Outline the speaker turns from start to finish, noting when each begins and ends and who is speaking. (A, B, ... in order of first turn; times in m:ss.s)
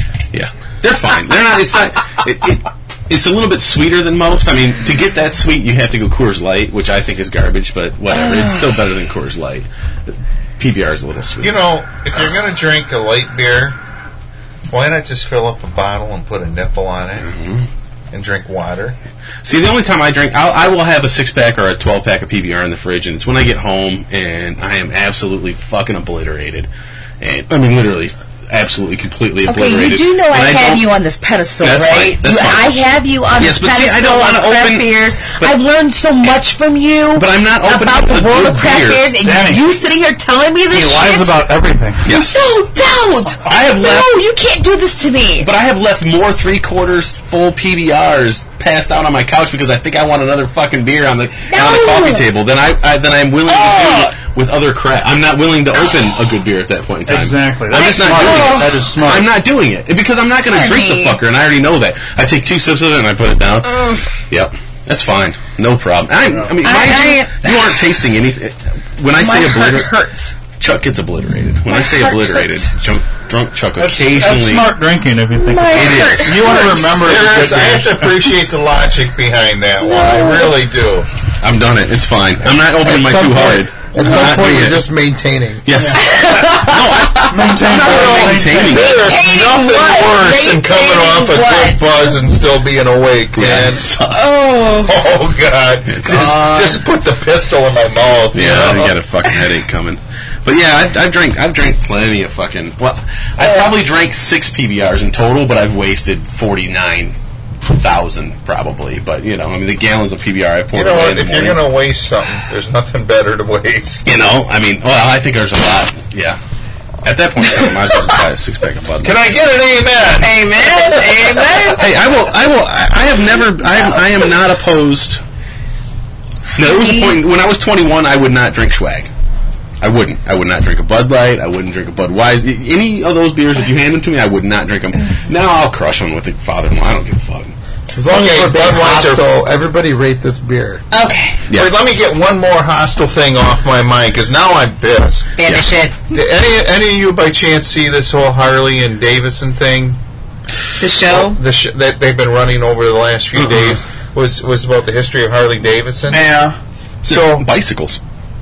0:00.3-0:11.5 A
0:08.1-0:08.6 B
0:11.4-0:13.8 C
0:14.7-0:17.3 C
0:17.2-0:17.7 A
0:18.1-0:19.0 C
0:19.4-0:26.7 A
0:27.2-0:30.9 A
0:29.4-0:41.4 B
0:31.6-0:32.7 A
0:33.4-0:35.5 A
0:37.1-0:39.1 A
0:39.2-0:39.6 D
0:40.7-0:42.0 D
0:42.0-0:42.4 A
0:42.1-0:45.5 B
0:43.4-0:44.2 A
0:45.4-1:10.0 A
0:51.5-0:52.2 B
0:53.5-0:54.1 B
0:57.0-0:59.3 D
0:57.7-0:58.8 B
1:00.5-1:01.2 B
1:06.2-1:06.5 D
1:06.6-1:07.8 B
1:09.2-1:10.3 B
1:10.6-1:14.7 A
1:11.7-1:12.7 B
1:13.8-1:18.2 D
1:15.4-1:16.8 B
1:15.7-1:16.8 A
1:16.8-1:21.1 C
1:19.8-1:20.5 B
1:21.4-1:24.9 A
1:22.5-1:25.7 E
1:25.6-1:29.2 A
1:25.7-1:26.0 D
1:26.0-1:27.5 B
1:27.3-1:28.9 D
1:27.8-1:34.0 C
1:28.7-1:32.2 B
1:33.3-1:34.3 A
1:34.1-1:35.0 B
1:34.8-1:39.0 C
1:35.9-1:36.5 A
1:36.1-1:36.8 B
1:38.3-1:47.1 A
1:47.7-1:51.6 A
1:50.7-1:54.1 C
1:54.0-1:56.4 A
1:57.0-1:59.2 A
1:59.0-2:01.6 C
2:00.2-2:01.9 B
2:01.8-2:05.2 A
2:06.6-2:09.1 A
2:06.6-2:07.2 B
2:09.8-2:17.5 A
2:17.9-2:20.8 E
2:18.0-2:19.3 C
2:20.9-2:21.4 B
2:21.5-2:25.4 C
2:25.4-2:25.9 B
2:25.4-2:25.7 A
2:26.1-2:30.0 C
2:30.8-2:31.4 B
2:31.0-2:36.3 C
2:33.4-2:33.8 A
2:36.1-2:36.5 B
2:37.0-2:37.5 C
2:37.0-2:38.0 A